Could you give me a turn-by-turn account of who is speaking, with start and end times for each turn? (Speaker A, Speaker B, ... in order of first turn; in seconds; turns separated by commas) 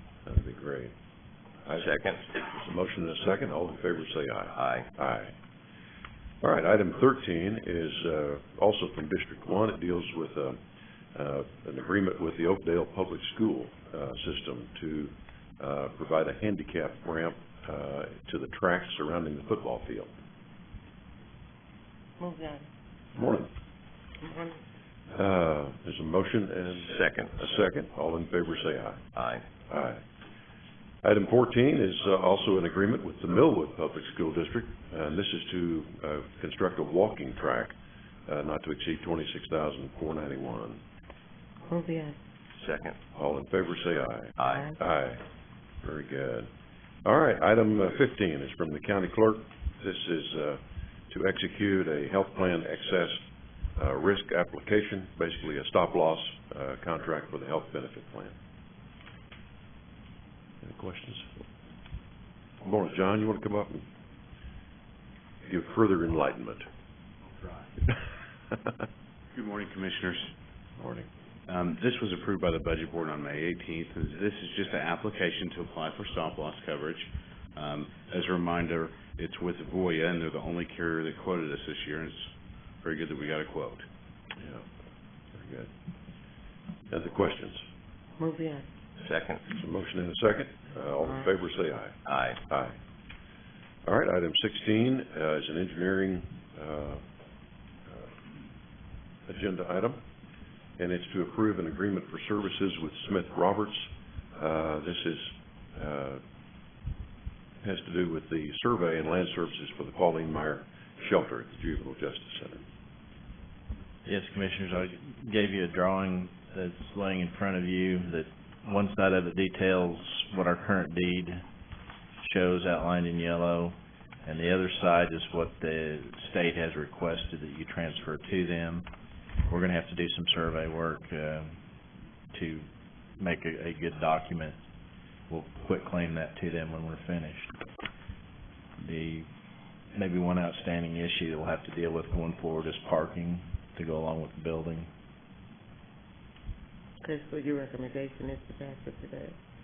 Speaker A: 0.2-0.9, Speaker A: 1.6-5.3, Speaker B: 1.8-2.3, Speaker B: 4.5-4.9, Speaker A: 6.4-10.6, Speaker A: 11.1-20.1, Speaker C: 22.2-22.7, Speaker A: 23.1-23.5, Speaker C: 24.2-24.6, Speaker A: 25.1-29.1, Speaker B: 26.8-27.4, Speaker B: 29.1-29.4, Speaker A: 29.7-30.0, Speaker A: 31.0-37.7, Speaker A: 38.2-40.8, Speaker C: 41.7-42.2, Speaker B: 42.6-43.0, Speaker A: 43.1-45.2, Speaker B: 44.4-44.7, Speaker C: 44.4-44.8, Speaker A: 45.8-46.5, Speaker A: 47.0-58.3, Speaker A: 60.6-61.3, Speaker A: 62.6-63.9, Speaker A: 65.4-66.7, Speaker A: 68.5-68.8, Speaker D: 69.3-70.3, Speaker A: 70.8-71.1, Speaker D: 71.5-82.3, Speaker D: 82.8-83.8, Speaker A: 84.4-84.6, Speaker A: 85.3-85.7, Speaker A: 86.9-87.6, Speaker C: 88.2-88.7, Speaker B: 89.0-89.4, Speaker A: 89.5-92.8, Speaker C: 91.0-91.3, Speaker B: 92.1-92.4, Speaker A: 93.8-97.0, Speaker A: 97.8-98.1, Speaker A: 99.3-100.0, Speaker A: 100.8-106.2, Speaker A: 107.6-112.6, Speaker E: 114.0-121.4, Speaker E: 122.2-128.9, Speaker E: 129.4-131.5, Speaker E: 132.3-132.7, Speaker E: 133.2-134.6, Speaker E: 135.3-137.5, Speaker E: 138.8-139.3, Speaker E: 139.9-144.9, Speaker C: 147.0-149.3